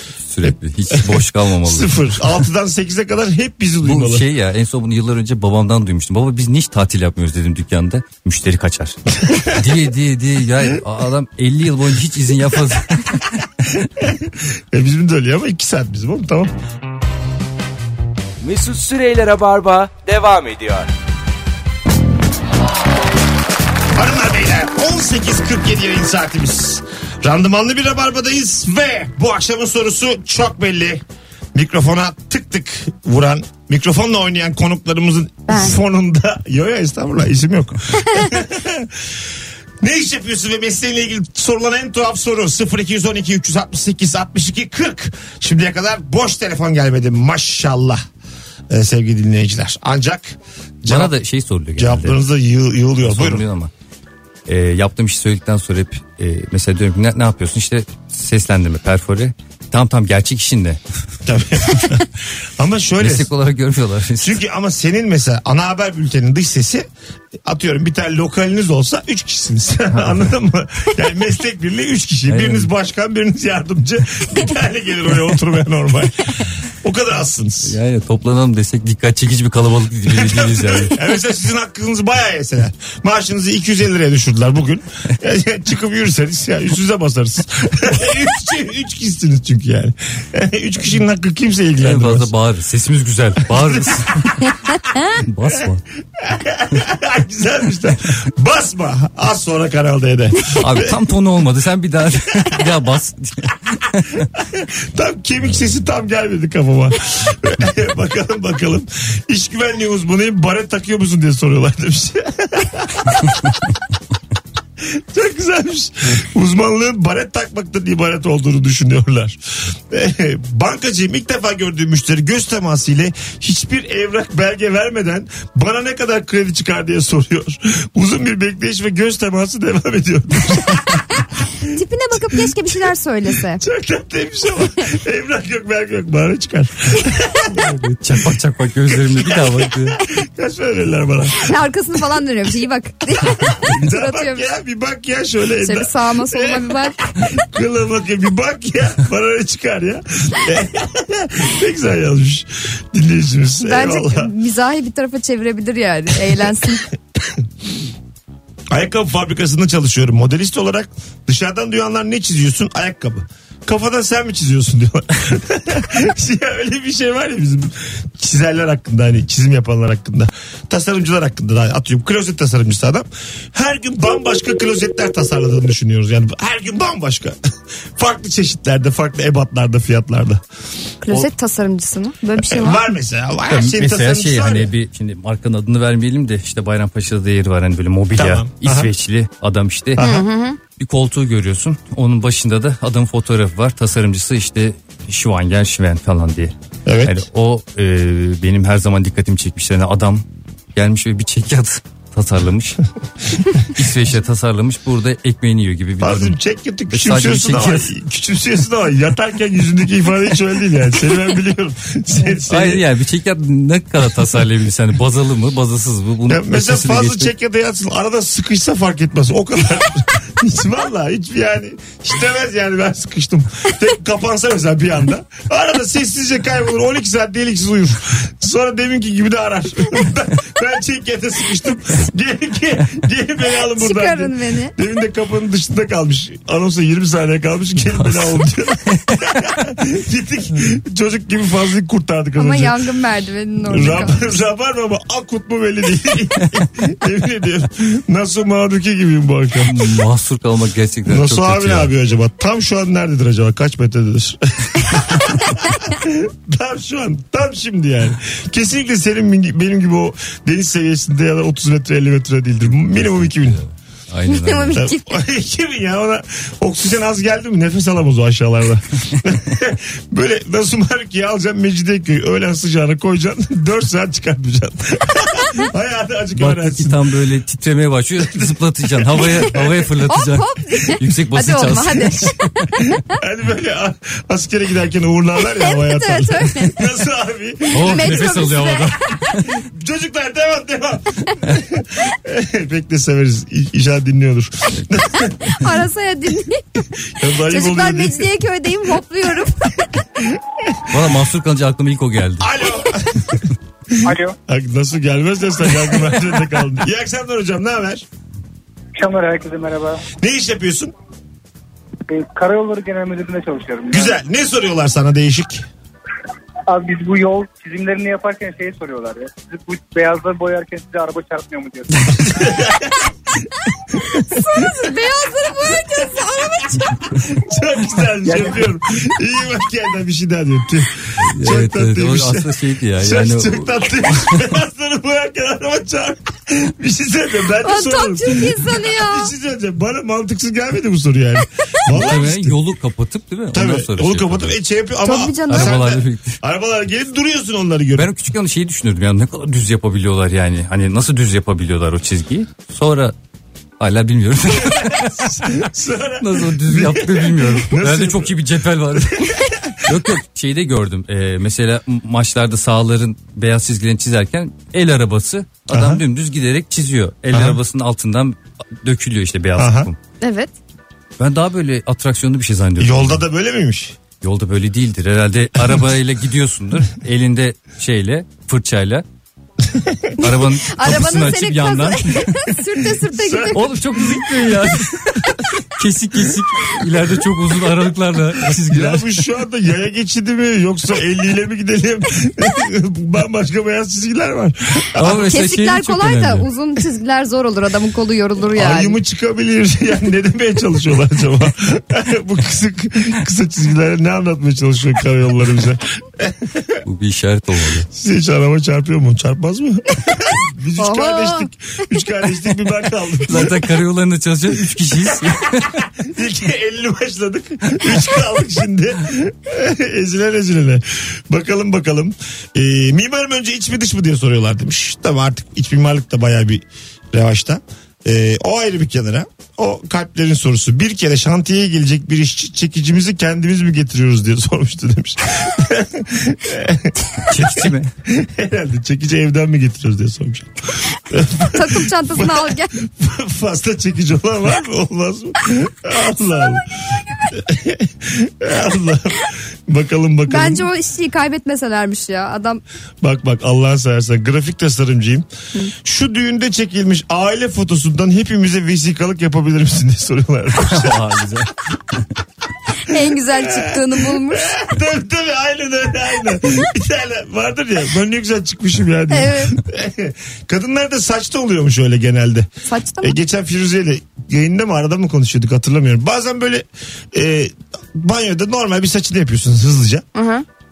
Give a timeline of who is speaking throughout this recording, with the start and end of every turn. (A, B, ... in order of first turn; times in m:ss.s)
0:00.3-0:02.2 A
0:00.4-0:04.2 B
0:03.8-0:13.4 A
0:09.2-0:09.6 B
0:14.0-0:16.5 B
0:18.4-0:20.9 C
0:23.9-0:31.0 B
0:31.5-0:39.1 B
0:35.5-0:35.7 D
0:39.8-0:48.0 B
0:48.7-0:51.1 B
0:50.9-0:52.2 A
0:51.8-0:53.4 B
0:53.0-0:53.7 A
0:54.5-1:00.8 A
1:01.2-1:03.3 B
1:03.0-1:04.4 A
1:04.2-1:06.9 B
1:07.4-1:17.8 B
1:12.3-1:12.7 A
1:17.6-1:21.0 A
1:20.1-1:32.3 B
1:31.8-1:34.3 A
1:33.5-1:34.5 B
1:35.2-1:35.8 A
1:36.2-1:41.0 B
1:40.6-1:44.3 A
1:44.4-1:53.5 B
1:54.8-2:11.4 B
2:11.7-2:13.6 D
2:13.6-2:17.7 B
2:17.5-2:20.0 A
2:18.9-2:21.5 B
2:21.4-2:24.5 D
2:23.4-2:34.3 B
2:25.6-2:27.0 D
2:33.6-2:36.9 D
2:38.7-2:57.4 B
2:58.0-3:00.4 B
3:01.0-3:02.8 D
3:02.4-3:04.7 B
3:03.5-3:10.0 A
3:08.2-3:08.9 B
3:10.0-3:10.2 B
3:10.0-3:10.6 D
3:10.8-3:20.2 A
3:16.8-3:17.2 B
3:20.7-3:22.8 A
3:23.6-3:26.4 A
3:26.0-3:32.8 B
3:26.9-3:27.9 A
3:32.4-3:37.3 A
3:36.3-4:02.8 B
3:53.6-3:54.7 D
3:58.0-3:58.4 A
4:02.4-4:04.3 D
4:03.7-4:09.7 B
4:09.6-4:11.9 A
4:11.1-4:23.6 B
4:23.0-4:24.8 A
4:24.3-4:25.1 D
4:24.8-4:37.0 B
4:36.4-4:42.3 A
4:39.0-4:39.8 B
4:40.1-4:43.0 D
4:43.1-4:48.4 B
4:45.5-4:46.8 D
4:47.7-4:49.0 A
4:47.8-4:49.4 D
4:49.4-4:55.6 B
4:55.2-5:00.0 D
4:57.1-4:58.3 B
5:00.2-5:01.0 B
5:00.9-5:02.5 A
5:02.4-5:08.0 B
5:04.0-5:04.3 E
5:09.0-5:10.0 E
5:10.2-5:10.9 B
5:12.1-5:14.1 E
5:13.9-5:15.6 B
5:16.7-5:22.2 E
5:22.1-5:24.7 B
5:24.5-5:27.0 D
5:26.8-5:32.5 B
5:28.3-5:28.6 E
5:31.2-5:34.4 A
5:33.0-5:42.6 B
5:37.6-5:39.3 D
5:41.9-5:44.6 A
5:43.5-5:48.1 B
5:45.0-5:45.8 D
5:45.5-5:46.4 A
5:47.9-5:53.1 A
5:53.8-5:55.3 A
5:54.6-5:58.3 B
5:56.2-6:10.0 A
5:58.9-5:59.9 B
6:05.7-6:06.0 B
6:07.3-6:07.6 B
6:09.6-6:09.9 B
6:10.2-6:10.5 D
6:11.2-6:13.2 A
6:12.8-6:14.0 B
6:14.2-6:19.0 A
6:15.6-6:15.8 B
6:19.7-6:20.1 B
6:20.2-6:22.5 A
6:20.2-6:23.7 D
6:23.1-6:24.8 B
6:23.5-6:29.2 A
6:28.6-6:35.3 B
6:35.0-6:36.5 A
6:35.3-6:39.0 D
6:38.5-6:46.8 B
6:46.8-6:47.9 A
6:47.9-6:53.7 B
6:50.8-6:51.5 D
6:53.3-6:55.7 A
6:55.6-7:26.7 B
7:17.3-7:17.9 A
7:21.5-7:22.7 D
7:27.3-7:30.7 B
7:30.3-7:32.6 D
7:33.0-7:35.2 B
7:35.8-7:41.2 B
7:40.6-7:41.5 A
7:42.8-7:44.6 D
7:42.9-7:52.5 B
7:49.1-7:49.6 D
7:52.7-7:53.1 D
7:53.0-8:00.0 B
8:00.1-8:00.4 D